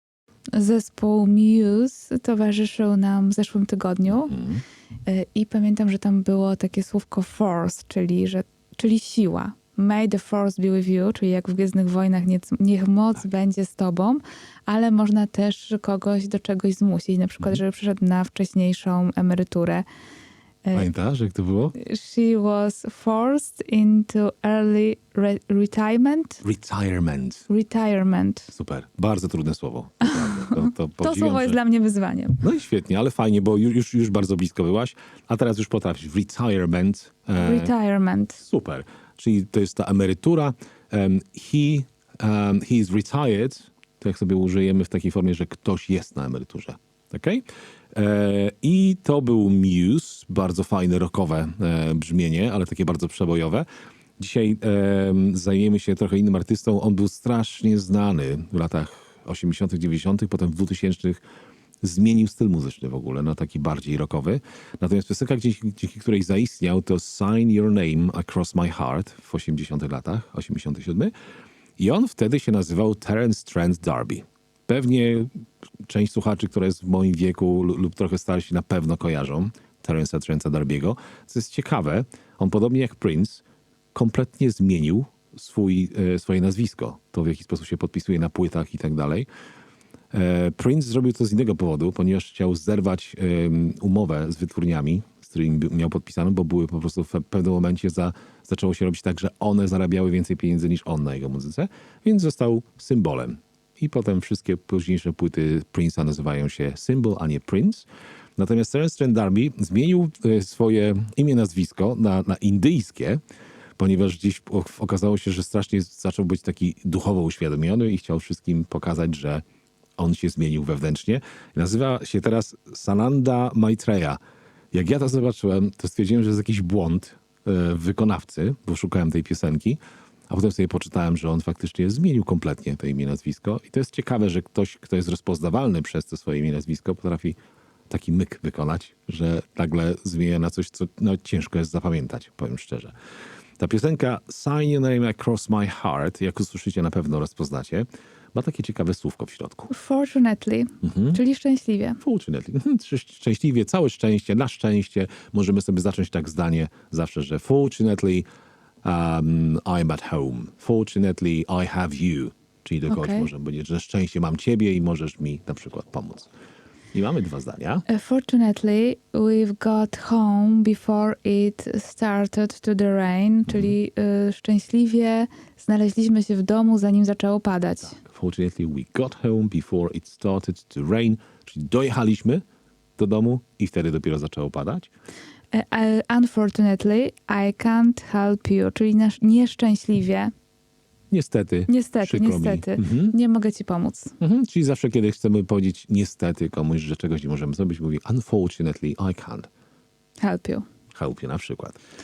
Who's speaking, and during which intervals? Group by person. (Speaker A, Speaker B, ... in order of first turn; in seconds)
Speaker A: 0.5-4.4, 5.1-19.9, 20.6-20.9, 21.8-26.4, 27.5-28.5, 30.0-32.4, 37.4-38.4, 149.7-152.0, 162.9-163.3, 167.9-178.0, 185.5-190.3, 191.7-194.1, 200.2-200.7
Speaker B: 4.2-4.6, 20.7-21.8, 26.4-27.5, 28.5-31.6, 32.4-37.7, 38.4-53.7, 54.2-61.2, 61.8-71.1, 71.8-75.3, 75.9-83.4, 83.9-89.3, 90.1-113.2, 113.8-119.4, 120.0-124.2, 124.7-137.4, 137.9-142.9, 143.6-149.7, 150.8-151.2, 152.0-158.3, 158.8-166.3, 166.9-167.8, 173.5-173.8, 178.0-182.4, 183.0-184.9, 191.1-193.2, 194.2-199.5, 200.9-201.8